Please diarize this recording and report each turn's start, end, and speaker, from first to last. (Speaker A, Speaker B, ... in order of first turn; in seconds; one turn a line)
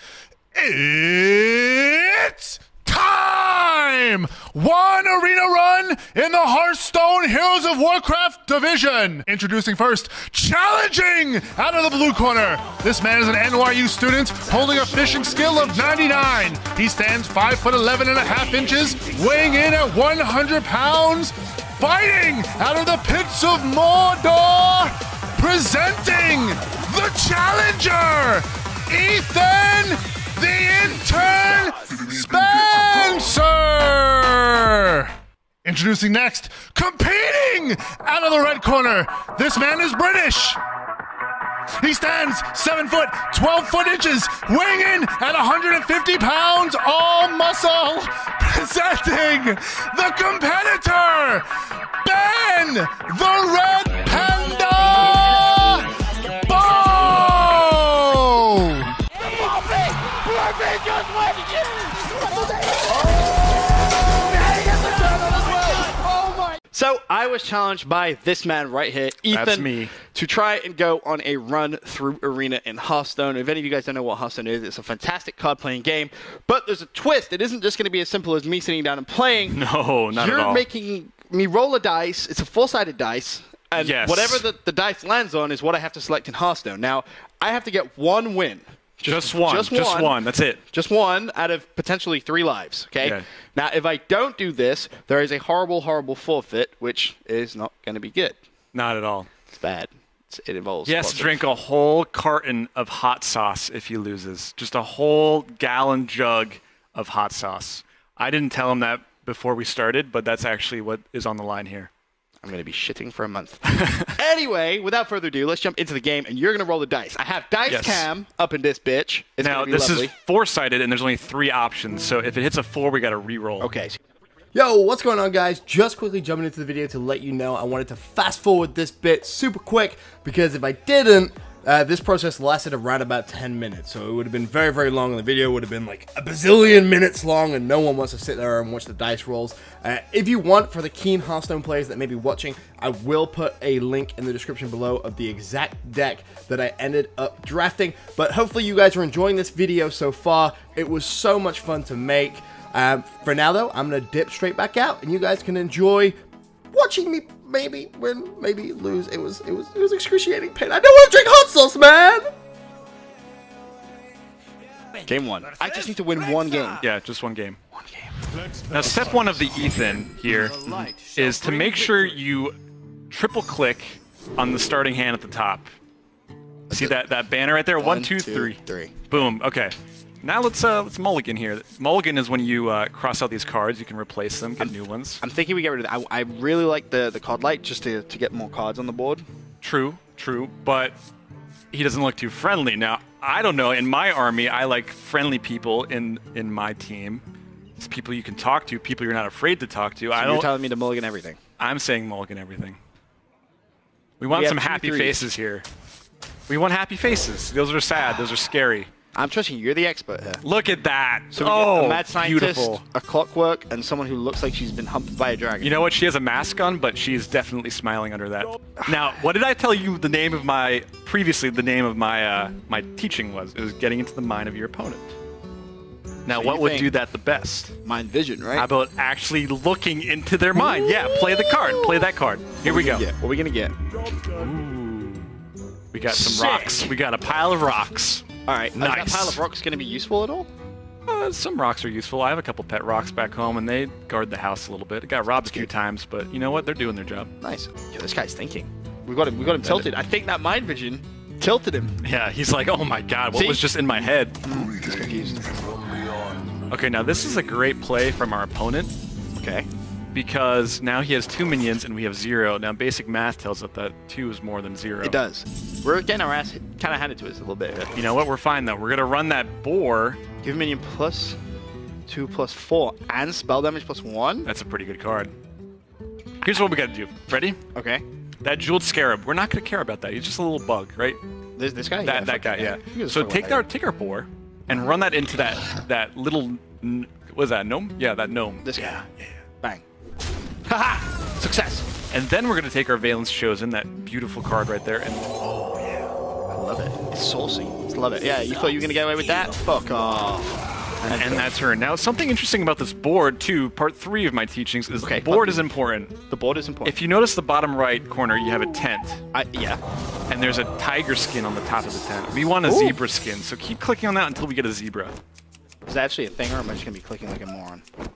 Speaker A: 0.5-40.6
Speaker A: 41.8-51.5
Speaker A: 52.0-58.9
Speaker B: 59.2-63.2
Speaker B: 64.2-79.6
Speaker C: 69.3-69.9
Speaker C: 79.5-80.7
Speaker B: 80.1-98.4
Speaker C: 83.8-84.5
Speaker C: 89.0-90.6
Speaker C: 98.7-99.3
Speaker B: 99.5-101.4
Speaker C: 100.8-111.9
Speaker B: 112.4-120.1
Speaker C: 113.7-114.1
Speaker C: 117.7-118.1
Speaker C: 119.4-123.7
Speaker B: 123.6-124.0
Speaker D: 124.5-156.2
Speaker D: 156.7-162.2
Speaker B: 165.0-166.8
Speaker C: 166.8-167.6
Speaker B: 167.7-168.2
Speaker C: 168.7-172.6
Speaker B: 170.2-172.2
Speaker C: 173.1-175.7
Speaker C: 176.7-185.2
Speaker B: 176.7-177.0
Speaker B: 177.8-178.9
Speaker B: 184.6-189.2
Speaker C: 189.6-191.0
Speaker C: 191.7-197.2
Speaker C: 197.8-200.5
Speaker B: 200.1-201.4
Speaker C: 201.6-202.8
Speaker C: 204.2-205.7
Speaker B: 204.3-205.2
Speaker C: 206.5-208.9
Speaker B: 209.1-210.4
Speaker C: 210.4-212.8
Speaker B: 211.3-215.8
Speaker C: 215.6-225.1
Speaker B: 218.8-219.0
Speaker C: 226.2-227.7
Speaker B: 226.3-226.9
Speaker B: 227.8-228.7
Speaker C: 228.5-233.1
Speaker B: 230.6-232.1
Speaker B: 232.6-233.7
Speaker C: 234.3-235.3
Speaker C: 235.9-238.2
Speaker B: 236.1-236.9
Speaker B: 238.4-240.5
Speaker C: 238.8-239.4
Speaker C: 241.1-247.3
Speaker B: 245.4-245.7
Speaker B: 247.4-252.0
Speaker C: 249.6-249.9
Speaker C: 252.0-254.5
Speaker B: 253.3-255.6
Speaker C: 256.7-258.9
Speaker B: 259.4-259.7
Speaker C: 260.1-265.2
Speaker B: 265.0-267.9
Speaker C: 267.9-270.2
Speaker B: 270.4-271.4
Speaker B: 272.1-274.5
Speaker C: 274.4-275.3
Speaker C: 276.4-277.6
Speaker B: 277.7-278.0
Speaker C: 278.4-281.2
Speaker B: 281.6-283.6
Speaker C: 282.0-289.3
Speaker B: 288.6-289.0
Speaker B: 290.6-291.9
Speaker C: 292.1-295.9
Speaker B: 296.5-301.5
Speaker C: 301.1-306.2
Speaker B: 305.0-305.7
Speaker B: 306.3-307.0
Speaker C: 306.8-309.2
Speaker B: 309.3-309.8
Speaker C: 310.3-315.2
Speaker B: 312.6-313.0
Speaker B: 315.8-317.8